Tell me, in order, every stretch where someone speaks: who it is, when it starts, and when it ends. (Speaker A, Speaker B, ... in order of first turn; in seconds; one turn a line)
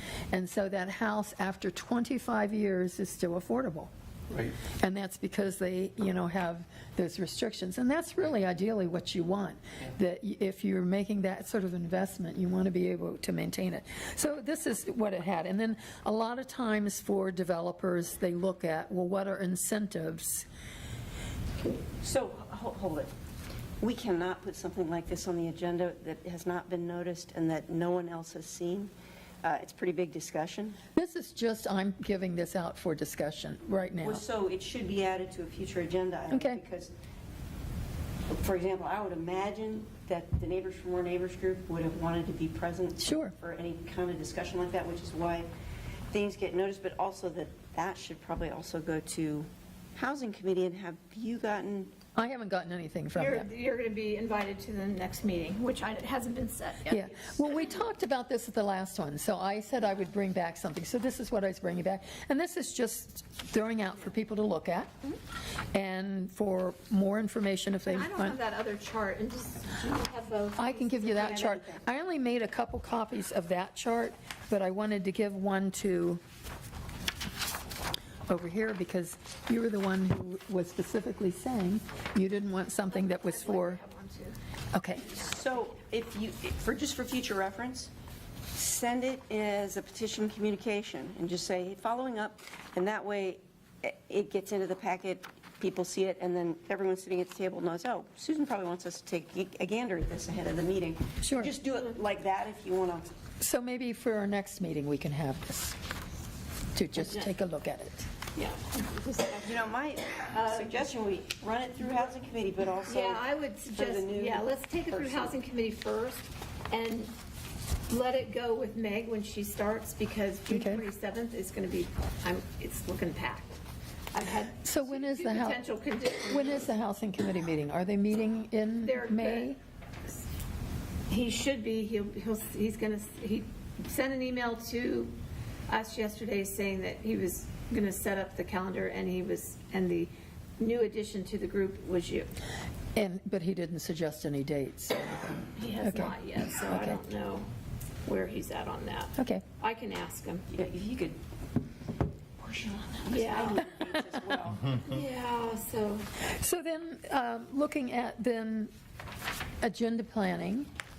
Speaker A: 0.3-3.9
Speaker A: 4.7-20.5
Speaker B: 22.0-23.1
Speaker B: 23.8-28.9
Speaker B: 29.4-30.8
Speaker A: 31.0-34.2
Speaker B: 34.0-36.9
Speaker A: 36.3-36.6
Speaker B: 38.3-45.5
Speaker A: 43.0-43.3
Speaker B: 46.1-51.9
Speaker A: 52.2-53.5
Speaker C: 53.1-57.4
Speaker A: 56.9-64.9
Speaker A: 65.7-68.4
Speaker C: 67.9-71.7
Speaker A: 70.6-76.2
Speaker A: 78.3-83.8
Speaker C: 82.9-84.4
Speaker A: 84.7-85.1
Speaker B: 85.0-87.9
Speaker B: 88.5-103.1
Speaker A: 101.2-101.5
Speaker A: 103.4-105.8
Speaker A: 106.8-108.1
Speaker C: 107.0-107.3
Speaker C: 108.3-109.7
Speaker B: 109.4-115.3
Speaker C: 110.3-110.8
Speaker C: 112.9-117.1
Speaker C: 117.9-123.6
Speaker A: 120.5-120.8
Speaker C: 124.1-126.7
Speaker A: 124.6-125.6
Speaker A: 126.3-129.6
Speaker C: 128.8-129.5
Speaker C: 131.1-135.1
Speaker C: 135.7-142.3
Speaker A: 142.9-147.0
Speaker C: 145.6-147.5
Speaker C: 148.1-150.4
Speaker A: 149.2-149.4
Speaker B: 150.5-151.2
Speaker B: 152.4-154.8
Speaker C: 153.1-153.6
Speaker C: 154.8-156.1
Speaker A: 156.2-158.7
Speaker A: 159.6-160.7